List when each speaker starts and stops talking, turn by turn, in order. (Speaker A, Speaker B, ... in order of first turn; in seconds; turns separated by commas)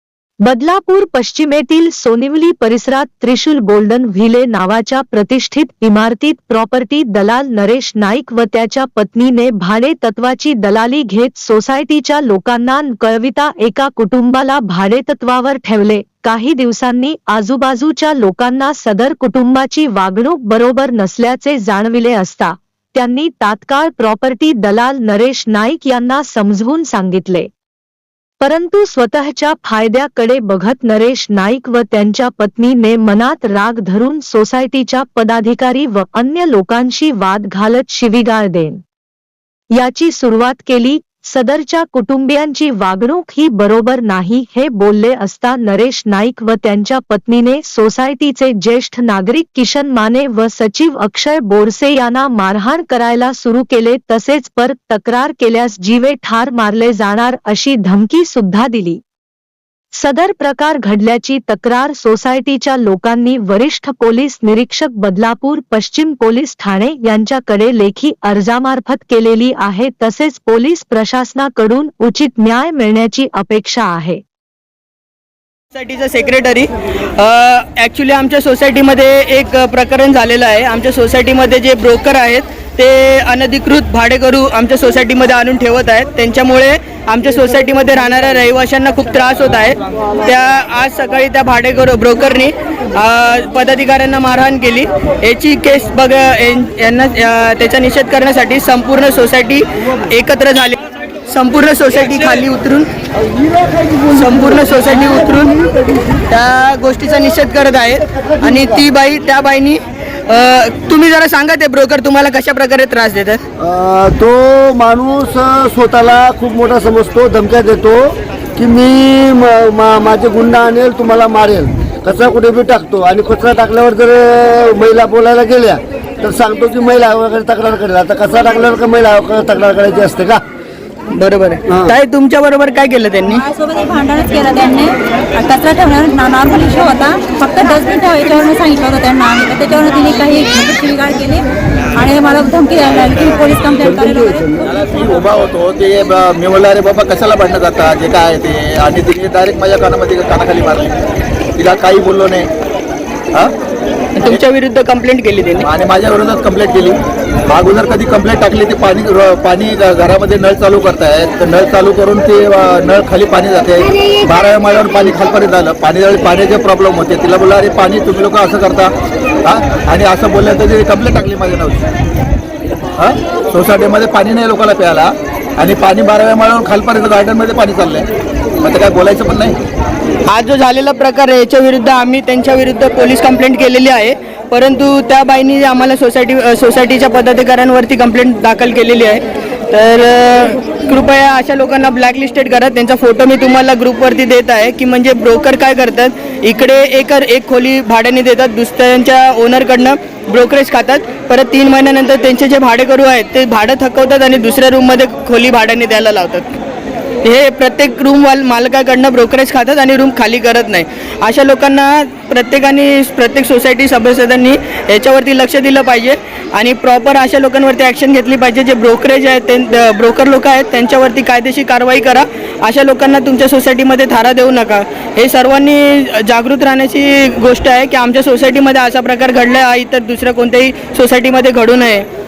Speaker A: 0.4-27.5, Speaker A: 28.4-38.8, Speaker A: 39.7-59.0, Speaker A: 60.0-74.2, Speaker B: 75.7-102.9, Speaker B: 104.0-105.7, Speaker B: 106.3-113.4, Speaker C: 113.6-130.4, Speaker B: 131.1-133.4, Speaker C: 131.7-131.9, Speaker D: 133.4-144.6, Speaker C: 143.9-144.6, Speaker E: 144.6-151.0, Speaker E: 151.6-152.5, Speaker B: 154.2-155.7, Speaker E: 155.6-157.0, Speaker E: 157.5-168.9, Speaker E: 169.4-171.8, Speaker E: 173.0-178.1, Speaker E: 178.6-179.6, Speaker B: 180.3-206.5, Speaker B: 207.2-232.1